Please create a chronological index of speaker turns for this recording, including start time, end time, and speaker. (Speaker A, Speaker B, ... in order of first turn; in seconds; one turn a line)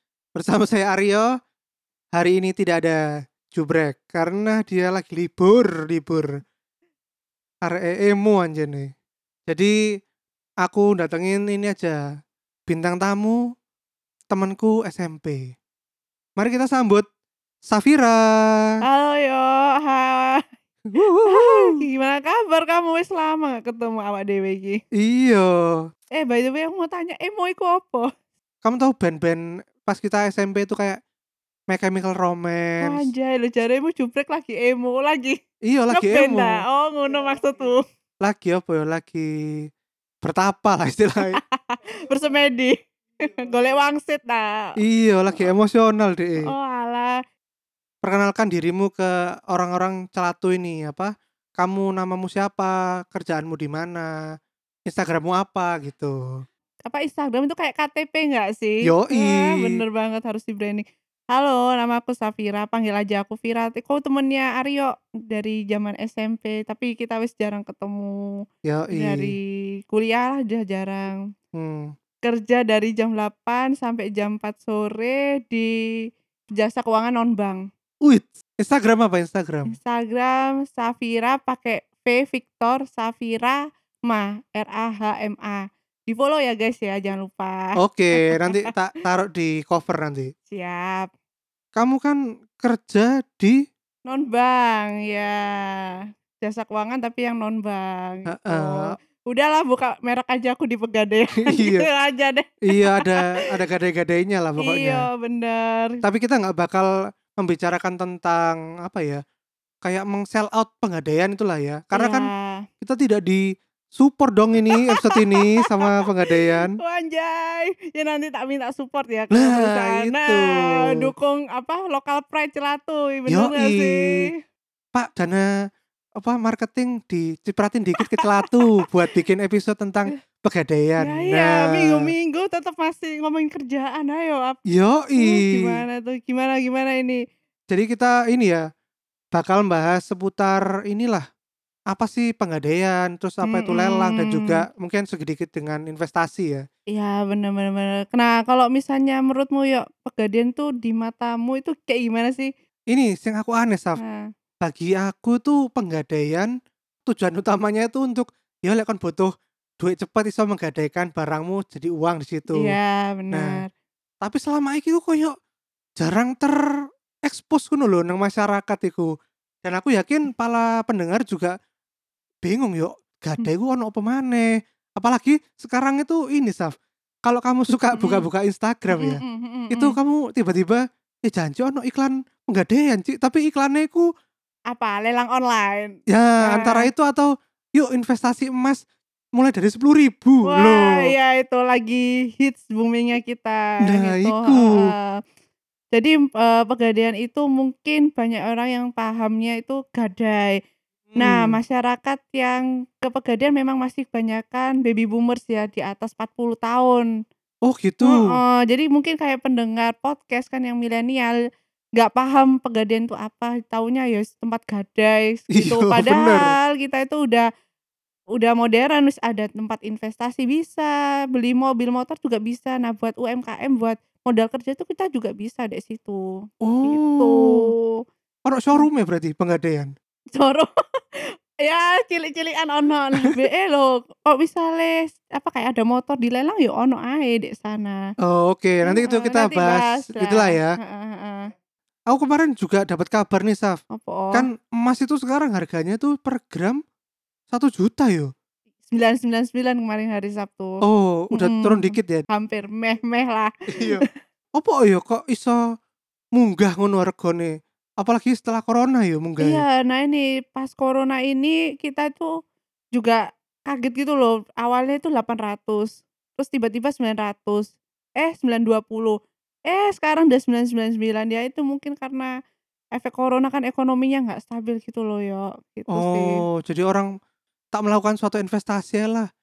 Speaker A: 0.3-1.3
Speaker A: 2.1-6.4
Speaker A: 7.6-8.9
Speaker A: 9.5-9.8
Speaker A: 10.6-12.0
Speaker A: 12.7-13.4
Speaker A: 14.3-15.5
Speaker A: 16.4-17.0
Speaker A: 17.6-18.8
Speaker B: 18.8-20.4
Speaker A: 20.9-21.8
Speaker B: 21.2-24.8
Speaker A: 25.0-25.8
Speaker B: 26.1-28.1
Speaker A: 28.6-31.0
Speaker A: 31.7-33.1
Speaker B: 32.8-35.4
Speaker A: 35.6-36.6
Speaker B: 35.9-37.8
Speaker A: 38.2-39.7
Speaker A: 40.2-41.4
Speaker B: 41.2-44.8
Speaker A: 44.8-46.5
Speaker B: 46.4-47.2
Speaker A: 48.0-54.1
Speaker A: 54.9-56.4
Speaker B: 56.8-71.2
Speaker A: 58.8-59.8
Speaker A: 68.6-69.3
Speaker A: 71.6-71.9
Speaker B: 72.2-75.7
Speaker B: 76.5-77.7
Speaker A: 78.0-79.7
Speaker B: 79.7-88.7
Speaker A: 87.8-90.3
Speaker B: 90.5-91.1
Speaker A: 91.7-93.6
Speaker B: 94.0-103.4
Speaker A: 98.3-98.9
Speaker A: 101.4-101.9
Speaker A: 102.7-105.1
Speaker B: 104.6-106.0
Speaker A: 106.0-109.2
Speaker A: 109.8-112.3
Speaker B: 111.9-112.7
Speaker A: 112.8-116.8
Speaker B: 114.7-124.4
Speaker A: 119.3-121.1
Speaker A: 123.3-124.3
Speaker A: 124.9-125.5
Speaker A: 126.2-132.1
Speaker B: 128.0-128.9
Speaker B: 131.0-134.6
Speaker A: 134.7-135.8
Speaker B: 135.2-137.2
Speaker A: 137.7-138.6
Speaker A: 139.3-141.2
Speaker A: 141.9-146.7
Speaker B: 143.4-144.6
Speaker B: 146.9-152.5
Speaker A: 152.9-154.0
Speaker B: 154.0-154.3
Speaker A: 154.6-156.5
Speaker A: 157.0-162.8
Speaker B: 162.5-163.7
Speaker A: 163.3-163.6
Speaker A: 164.2-165.3
Speaker A: 166.0-166.6
Speaker A: 167.2-169.1
Speaker A: 169.6-171.5
Speaker A: 172.4-176.7
Speaker A: 177.2-184.1
Speaker B: 177.7-178.2
Speaker B: 178.9-179.9
Speaker B: 184.7-186.9
Speaker A: 186.1-188.8
Speaker A: 189.3-191.1
Speaker B: 190.4-195.1
Speaker A: 193.8-194.9
Speaker B: 195.9-200.6
Speaker A: 201.1-201.6
Speaker B: 201.2-207.0
Speaker A: 207.6-208.4
Speaker B: 208.0-211.4
Speaker B: 211.9-217.5
Speaker A: 215.5-216.5
Speaker B: 218.3-228.0
Speaker A: 226.6-227.7
Speaker A: 228.4-229.9
Speaker B: 230.3-238.0
Speaker A: 238.2-240.7
Speaker B: 238.8-241.5
Speaker A: 242.1-243.8
Speaker B: 243.9-244.5
Speaker A: 244.3-246.8
Speaker A: 247.5-248.3
Speaker B: 248.9-254.1
Speaker A: 250.8-252.2
Speaker A: 253.7-255.6
Speaker A: 256.4-259.6
Speaker B: 259.4-262.3
Speaker B: 262.9-269.2
Speaker B: 269.7-272.3
Speaker B: 272.9-276.4
Speaker A: 275.9-277.1
Speaker A: 277.7-279.3